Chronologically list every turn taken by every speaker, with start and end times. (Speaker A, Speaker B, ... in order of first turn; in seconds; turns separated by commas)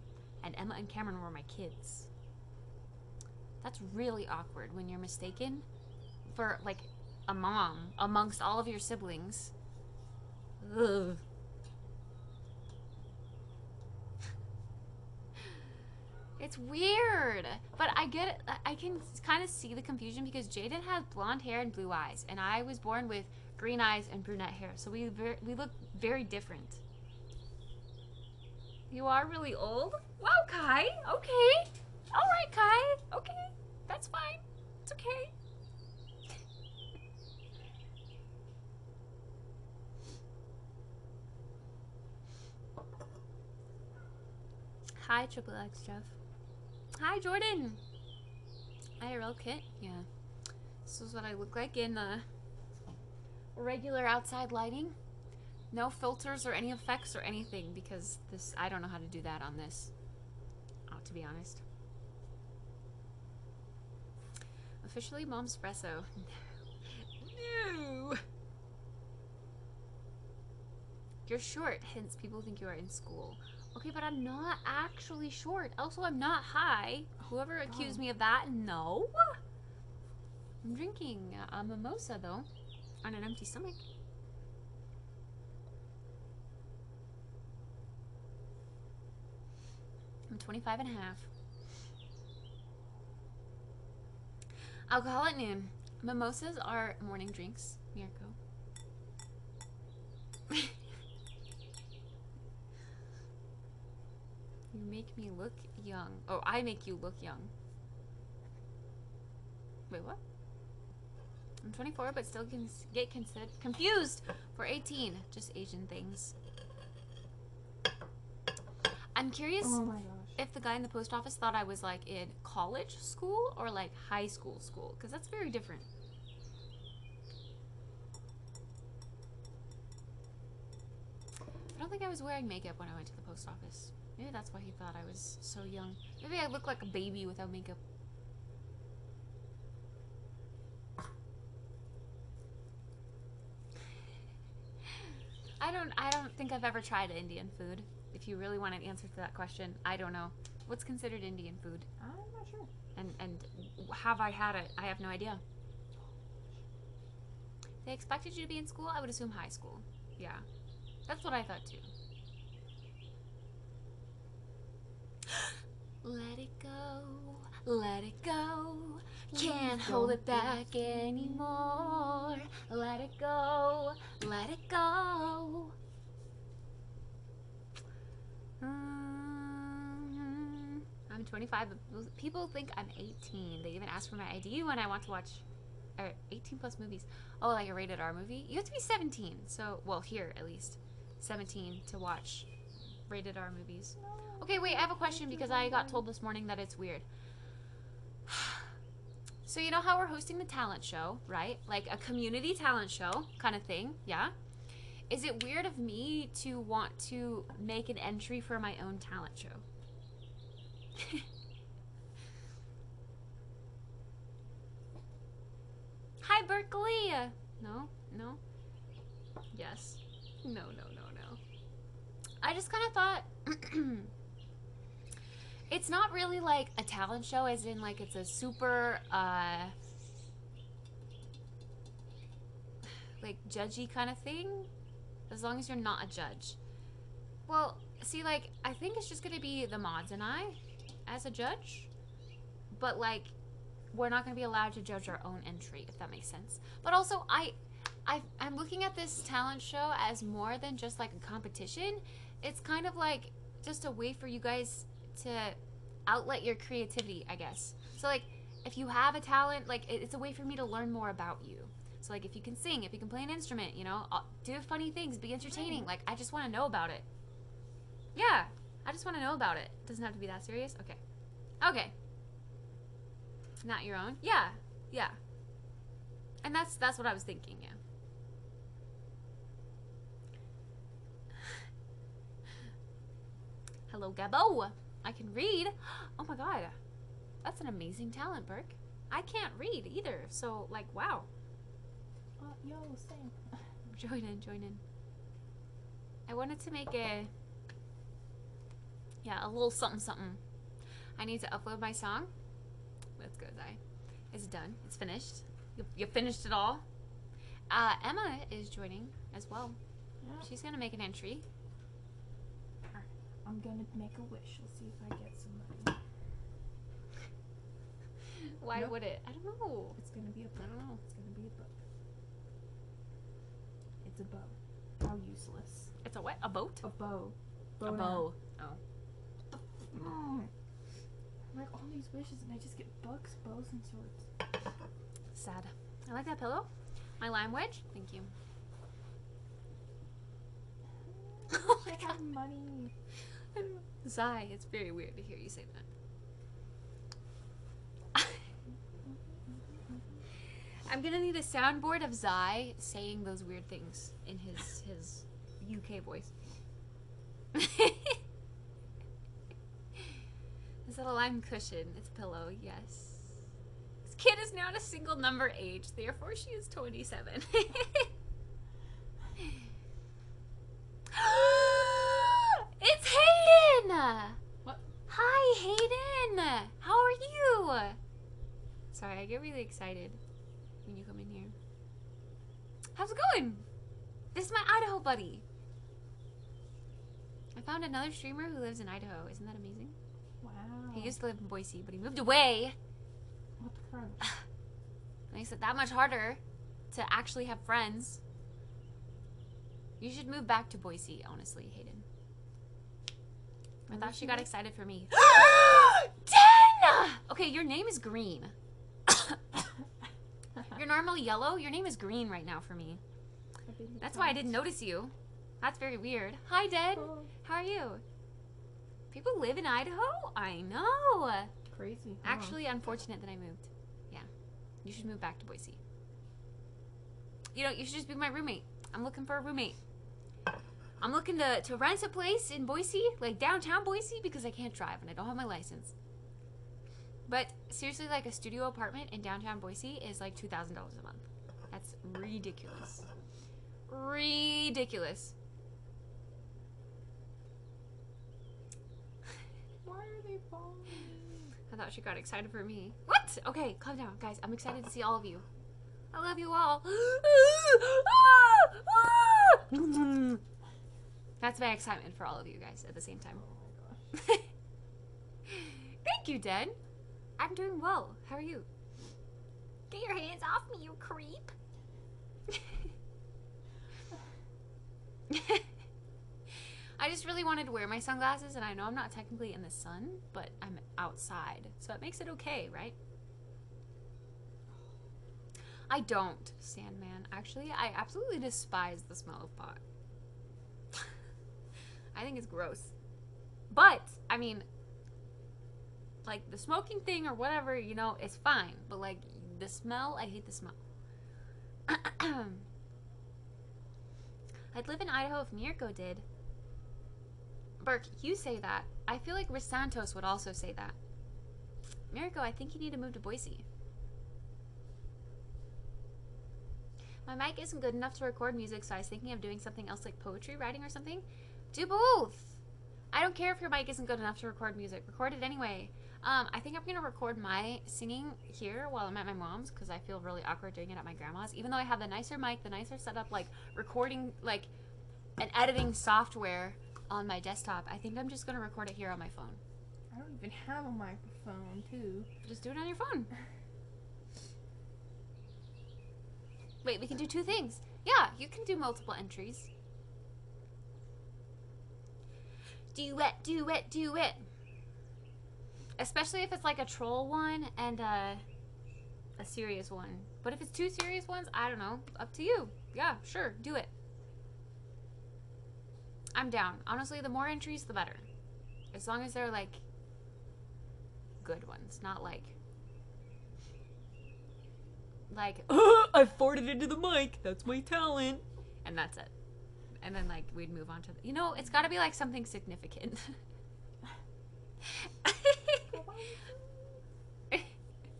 Speaker A: 0.4-2.1, Speaker A: 3.6-5.7, Speaker A: 6.3-9.5, Speaker A: 10.6-11.2, Speaker A: 16.4-26.8, Speaker A: 28.9-35.3, Speaker A: 45.0-46.1, Speaker A: 47.0-47.8, Speaker A: 49.0-50.1, Speaker A: 50.9-52.3, Speaker A: 53.5-55.0, Speaker A: 55.7-59.9, Speaker A: 60.9-61.6, Speaker A: 64.8-68.2, Speaker A: 71.3-79.4, Speaker B: 77.6-78.0, Speaker A: 80.6-82.5, Speaker A: 83.0-83.8, Speaker A: 90.3-91.3, Speaker A: 94.9-98.4, Speaker A: 104.7-107.5, Speaker A: 109.9-110.2, Speaker A: 111.6-116.3, Speaker A: 119.2-119.8, Speaker B: 119.6-120.4, Speaker A: 120.4-125.9, Speaker A: 131.8-137.8, Speaker A: 145.6-151.9, Speaker B: 152.0-152.7, Speaker A: 153.0-155.4, Speaker A: 157.8-160.4, Speaker A: 161.1-161.9, Speaker A: 165.3-175.7, Speaker B: 169.3-171.7, Speaker A: 178.6-185.4, Speaker A: 186.0-192.5, Speaker A: 193.1-197.1, Speaker B: 194.0-196.1, Speaker A: 198.3-198.7, Speaker A: 199.4-204.3, Speaker A: 205.1-209.6, Speaker A: 211.0-211.2, Speaker A: 216.2-218.4, Speaker A: 219.5-221.4, Speaker A: 222.4-224.1, Speaker A: 225.7-229.8, Speaker A: 233.2-234.7, Speaker A: 235.3-236.6, Speaker A: 237.5-241.9, Speaker A: 242.7-243.3, Speaker A: 243.9-267.1, Speaker B: 265.5-265.9, Speaker A: 268.1-271.0, Speaker A: 271.6-271.9, Speaker A: 273.6-275.2, Speaker A: 276.4-277.8, Speaker A: 283.9-286.8, Speaker A: 287.4-291.3, Speaker B: 292.4-293.7, Speaker A: 293.9-294.8, Speaker A: 296.3-297.3, Speaker A: 299.2-300.4, Speaker A: 301.2-302.3, Speaker A: 303.2-303.8, Speaker A: 304.3-306.8, Speaker A: 307.7-309.8, Speaker B: 310.2-310.5, Speaker A: 310.4-311.4, Speaker B: 312.9-316.0, Speaker A: 318.4-320.0, Speaker B: 318.7-319.0, Speaker B: 320.0-321.8, Speaker A: 320.6-321.0, Speaker B: 324.0-325.9, Speaker A: 326.0-326.9, Speaker B: 326.8-328.3, Speaker A: 327.8-328.8, Speaker B: 329.9-330.5, Speaker B: 331.5-334.5, Speaker A: 335.3-336.7, Speaker A: 337.2-338.3, Speaker B: 341.1-342.9, Speaker A: 341.5-342.1, Speaker A: 343.5-345.9, Speaker B: 349.0-350.2, Speaker A: 350.9-356.3, Speaker A: 357.5-358.2, Speaker A: 360.9-363.5, Speaker A: 364.0-368.1, Speaker A: 371.1-374.4, Speaker A: 375.1-378.0, Speaker A: 378.9-380.2, Speaker A: 380.9-381.6, Speaker A: 382.9-383.6, Speaker A: 384.3-385.4, Speaker A: 387.6-390.0, Speaker B: 390.4-391.1, Speaker A: 390.9-392.8, Speaker B: 393.6-394.3, Speaker A: 395.3-396.4, Speaker A: 396.9-398.2, Speaker A: 400.0-402.1, Speaker B: 403.9-404.5, Speaker A: 403.9-408.5, Speaker A: 409.1-409.4, Speaker A: 410.7-413.0, Speaker B: 413.7-414.5, Speaker A: 414.0-418.0, Speaker B: 416.9-417.3, Speaker A: 419.1-421.5, Speaker B: 421.7-422.6, Speaker A: 422.2-424.3, Speaker A: 424.8-425.8, Speaker A: 427.5-429.8, Speaker A: 431.0-435.9, Speaker A: 437.3-443.1, Speaker A: 443.9-445.3, Speaker B: 449.8-451.5, Speaker A: 451.7-455.5, Speaker A: 456.1-460.4, Speaker A: 461.4-463.4, Speaker B: 463.3-464.1, Speaker A: 464.1-464.4, Speaker A: 465.5-466.8, Speaker A: 467.4-468.7, Speaker A: 469.9-471.5, Speaker A: 472.5-472.8, Speaker A: 475.3-475.6, Speaker A: 477.0-482.9, Speaker A: 485.9-489.8, Speaker A: 492.1-492.9, Speaker A: 493.7-494.7, Speaker A: 496.2-500.8, Speaker A: 501.9-502.7, Speaker A: 504.7-506.3, Speaker A: 507.8-511.0, Speaker A: 512.1-513.6, Speaker A: 517.2-522.6, Speaker A: 523.1-534.7, Speaker A: 535.4-539.6, Speaker B: 540.1-542.3, Speaker A: 542.4-543.3, Speaker A: 546.8-549.7, Speaker A: 552.9-554.4, Speaker A: 556.0-558.4, Speaker A: 559.4-563.9, Speaker A: 566.4-568.3, Speaker A: 568.9-569.8, Speaker A: 571.4-572.5, Speaker A: 575.3-579.3, Speaker A: 580.0-583.4, Speaker A: 584.8-585.9, Speaker B: 585.9-587.0